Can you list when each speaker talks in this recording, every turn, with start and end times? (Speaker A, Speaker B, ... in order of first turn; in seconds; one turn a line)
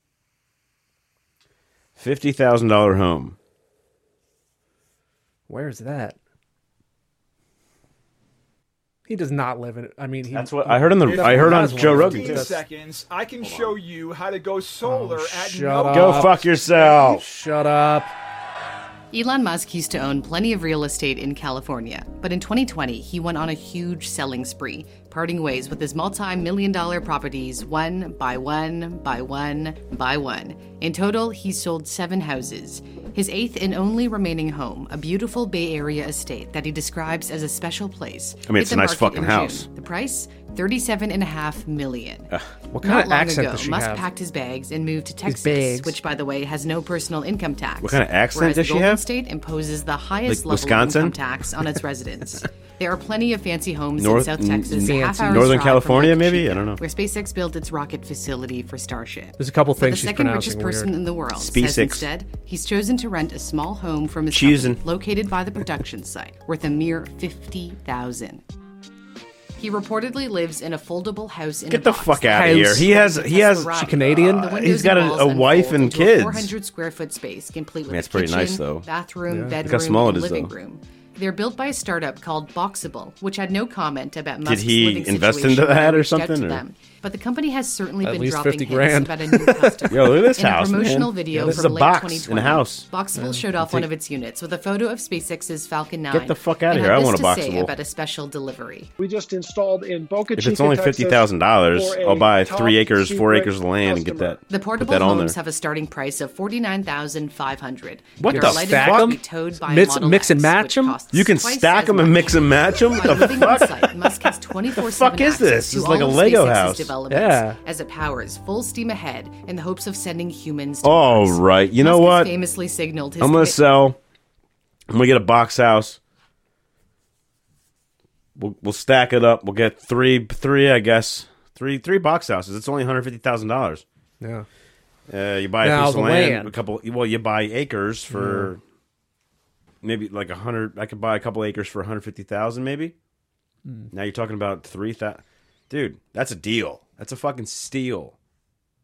Speaker A: 1.9-3.4
Speaker B: 5.5-6.2
Speaker B: 9.1-12.6
Speaker A: 10.3-12.6
Speaker C: 11.0-16.5
Speaker A: 13.4-13.8
Speaker B: 14.8-18.1
Speaker A: 15.9-17.2
Speaker D: 19.1-68.4
Speaker A: 38.5-39.7
Speaker B: 42.7-44.1
Speaker B: 45.2-46.0
Speaker A: 47.8-49.0
Speaker A: 50.2-51.2
Speaker A: 54.0-56.8
Speaker B: 54.8-55.6
Speaker B: 59.4-60.9
Speaker A: 61.3-62.1
Speaker A: 64.3-64.8
Speaker D: 69.6-98.9
Speaker A: 71.7-76.5
Speaker B: 72.3-72.9
Speaker B: 73.7-74.5
Speaker A: 77.9-78.8
Speaker B: 79.3-79.5
Speaker A: 79.6-80.5
Speaker A: 84.4-86.6
Speaker B: 88.0-89.9
Speaker A: 89.9-92.9
Speaker B: 91.3-91.6
Speaker B: 93.1-93.5
Speaker A: 96.1-97.7
Speaker E: 99.0-104.4
Speaker A: 100.3-105.3
Speaker D: 104.5-123.6
Speaker A: 108.2-109.2
Speaker B: 108.3-111.0
Speaker A: 111.1-116.9
Speaker B: 117.1-117.6
Speaker A: 120.8-122.3
Speaker A: 123.2-124.0
Speaker A: 124.9-126.0
Speaker A: 128.3-133.8
Speaker B: 134.2-134.5
Speaker A: 135.1-138.6
Speaker B: 135.6-136.6
Speaker B: 138.1-138.5
Speaker A: 139.8-142.9
Speaker A: 143.9-148.2